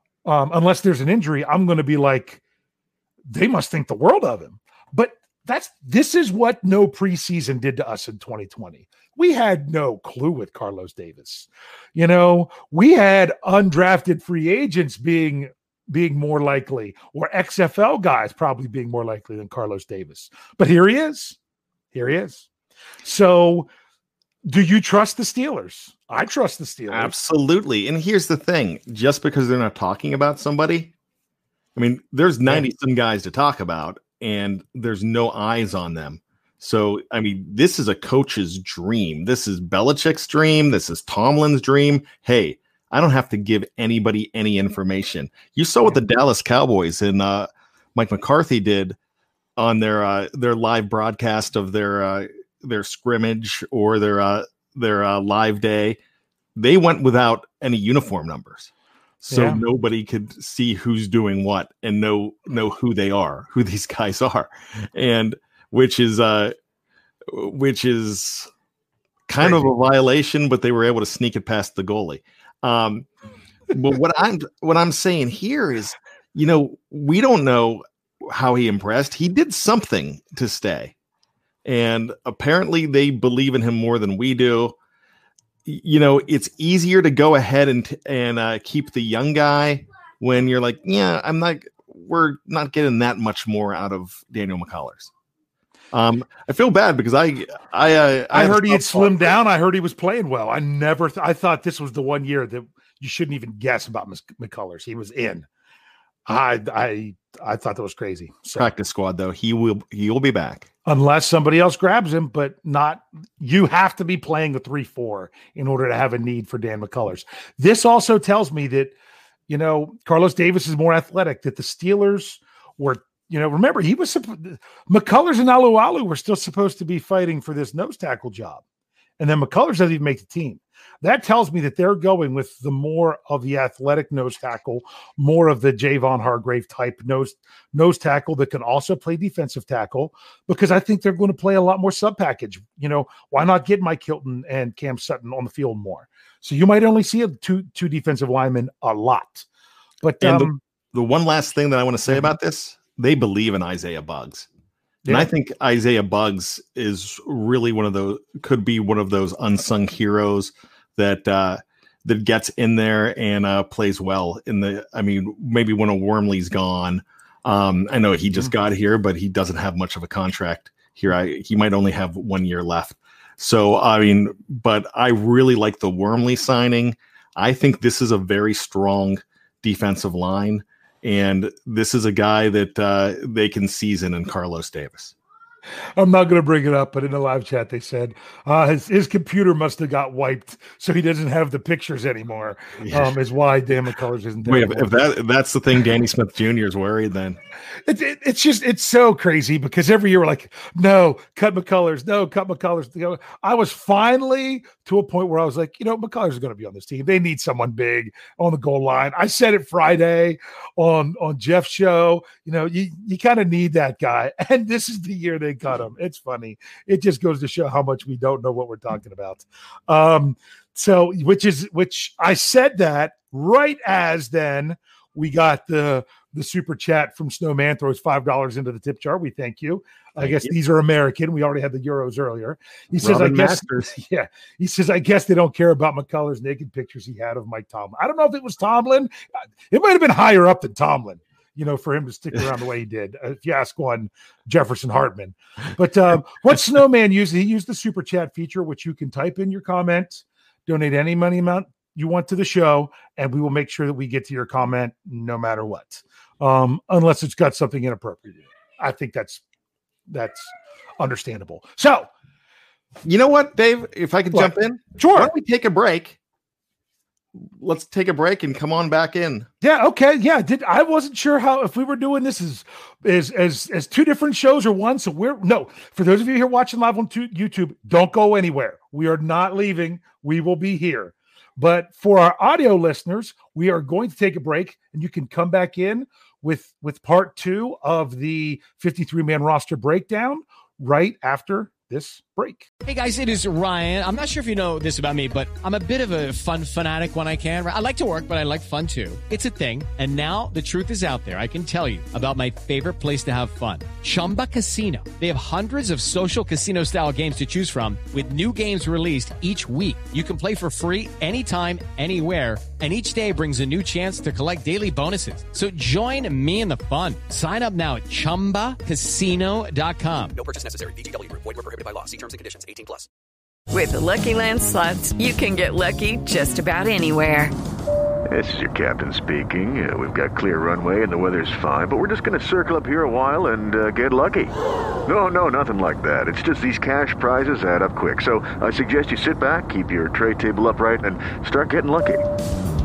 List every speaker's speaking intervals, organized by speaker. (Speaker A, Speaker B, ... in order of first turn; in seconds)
Speaker A: 0.2-2.4, 3.3-21.4, 21.9-22.4, 23.0-23.7, 24.4-27.1, 59.3-59.6, 69.4-69.7, 98.3-105.5, 106.3-108.7, 110.8-118.9, 119.5-128.6, 129.2-149.4, 150.0-150.6, 186.0-194.9, 197.8-239.1, 239.7-259.4, 260.1-262.1, 264.3-265.3, 269.6-292.7
Speaker B: 26.9-30.9, 31.8-49.0, 49.6-56.0, 56.5-58.7, 59.2-66.5, 67.3-68.5, 69.3-73.1, 73.7-80.9, 81.6-84.7, 85.7-95.1, 95.9-99.2, 108.5-110.7, 150.2-154.5, 155.1-185.1, 192.8-193.1, 194.5-197.4, 230.2-230.5, 233.0-233.9, 263.0-266.2, 267.6-269.5
Speaker C: 292.8-320.3
Speaker D: 320.3-323.1
Speaker E: 323.7-327.5
Speaker F: 328.3-334.5, 335.1-342.3